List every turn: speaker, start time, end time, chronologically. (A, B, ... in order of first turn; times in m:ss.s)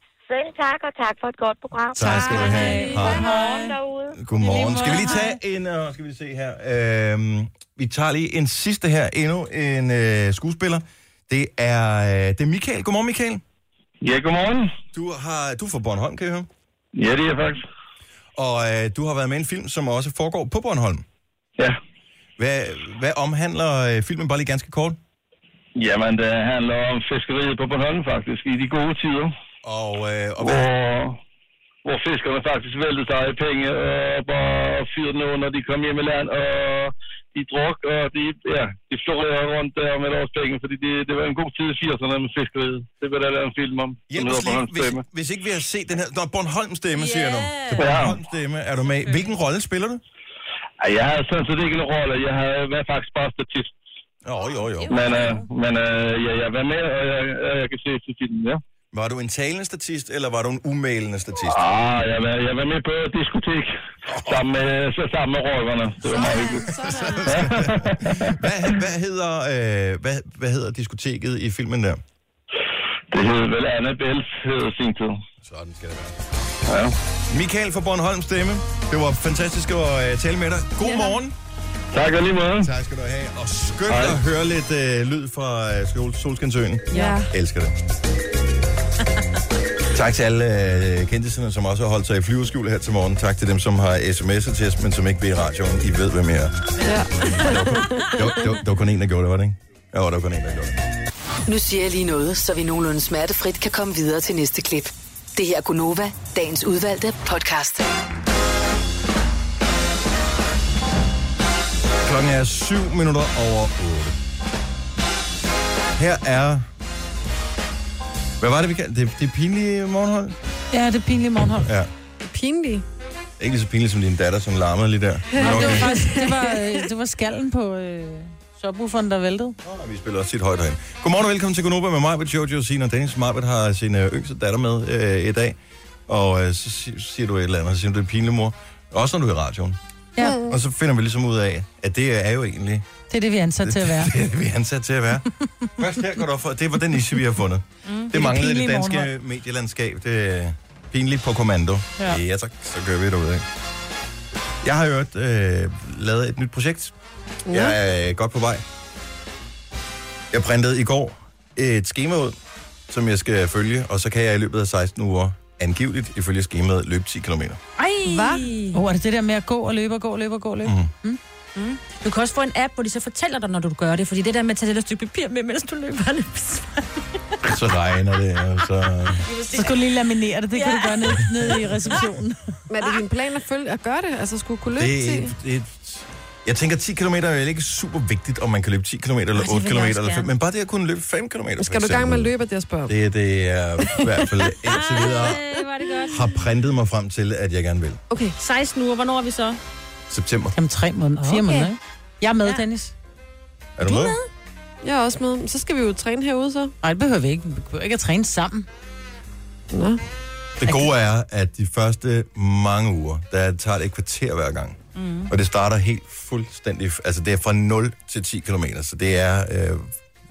0:00.3-0:04.2 A
0:01.9-0:03.3 B
0:02.0-0:03.8 C
0:04.1-0:13.4 B
0:04.4-0:05.3 C
0:14.0-0:14.7 D
0:14.9-0:16.5 B
0:17.0-0:17.6 D
0:18.4-0:21.0 B
0:22.4-0:25.0 B
0:25.8-0:29.3 D
0:29.6-0:30.7 B
0:30.4-0:31.2 D
0:31.8-0:45.0 D
0:44.1-0:50.0 B
0:47.0-0:48.0 C
0:47.8-0:48.2 D
0:49.0-0:49.3 C
0:50.8-0:53.7 D
0:54.2-0:54.9 B
0:54.8-0:55.5 C
0:54.9-0:58.6 D
0:58.9-1:01.6 B
1:01.5-1:03.7 D
1:04.1-1:04.4 B
1:04.2-1:06.7 D
1:06.0-1:07.7 E
1:06.8-1:12.0 B
1:07.2-1:08.3 D
1:13.1-1:15.2 D
1:15.4-1:16.3 B
1:16.7-1:17.0 D
1:17.3-1:21.3 B
1:20.8-1:21.1 E
1:21.9-1:22.7 D
1:22.6-1:27.8 B
1:23.9-1:24.2 D
1:26.9-1:27.3 E
1:29.9-1:36.6 B
1:36.8-1:38.2 E
1:37.2-1:40.8 B
1:41.5-1:47.9 F
1:52.0-1:54.2 B
1:56.0-1:56.7 B
1:58.4-2:00.4 B
2:00.7-2:01.7 G
2:01.6-2:01.9 B
2:02.2-2:02.8 E
2:03.4-2:05.9 B
2:05.3-2:06.8 E
2:05.4-2:09.6 G
2:09.6-2:15.6 B
2:16.1-2:19.8 B
2:20.2-2:20.4 G
2:20.2-2:20.6 E
2:20.5-2:22.9 B
2:23.1-2:24.1 G
2:23.6-2:33.4 B
2:27.9-2:28.1 C
2:28.1-2:29.1 G
2:34.6-2:36.9 B
2:37.5-2:37.8 E
2:37.5-2:38.6 B
2:40.3-2:42.4 B
2:42.9-2:47.6 B
2:47.8-2:48.8 C
2:48.0-2:48.4 E
2:48.7-2:51.2 G
2:50.6-2:50.9 B
2:51.6-2:56.9 C
2:57.4-2:59.2 B
2:59.2-3:00.0 C
2:59.5-3:02.4 G
3:00.5-3:02.0 C
3:02.7-3:05.3 E
3:04.8-3:12.3 B
3:09.4-3:10.3 C
3:11.6-3:13.0 E
3:12.9-3:15.4 B
3:13.9-3:14.3 E
3:14.7-3:16.3 C
3:16.1-3:18.0 B
3:18.4-3:19.6 C
3:20.1-3:20.6 B
3:20.6-3:22.9 G
3:21.2-3:21.7 C
3:23.8-3:24.2 B
3:24.8-3:26.7 E
3:26.8-3:28.7 G
3:29.7-3:30.0 E
3:30.6-3:39.9 B
3:35.0-3:35.3 C